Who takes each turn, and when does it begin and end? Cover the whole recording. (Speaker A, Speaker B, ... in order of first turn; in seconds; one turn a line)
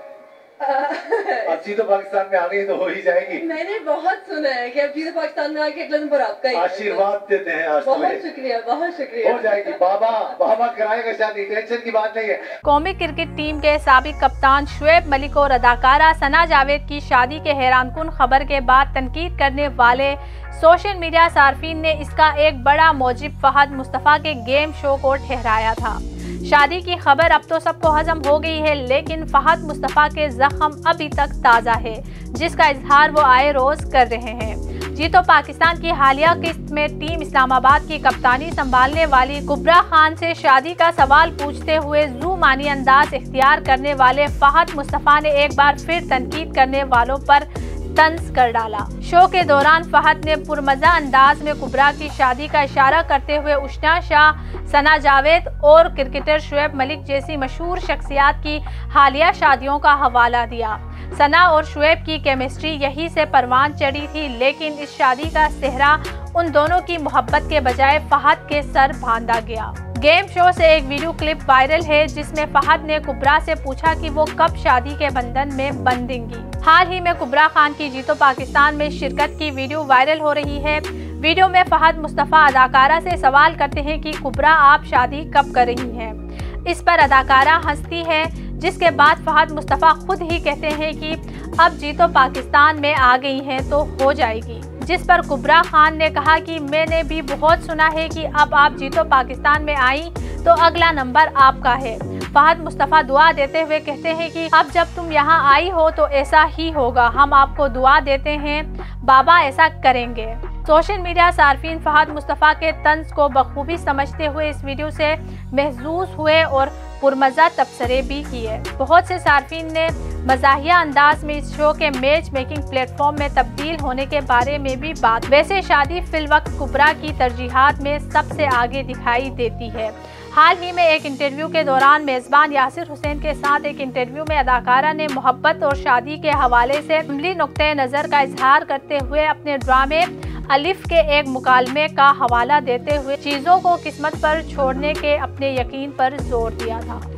Speaker A: 0.6-1.6
Speaker B: 1.4-3.4
Speaker A: 3.4-7.1
Speaker B: 6.5-8.2
Speaker A: 7.8-9.8
Speaker B: 9.2-12.5
Speaker C: 12.6-147.0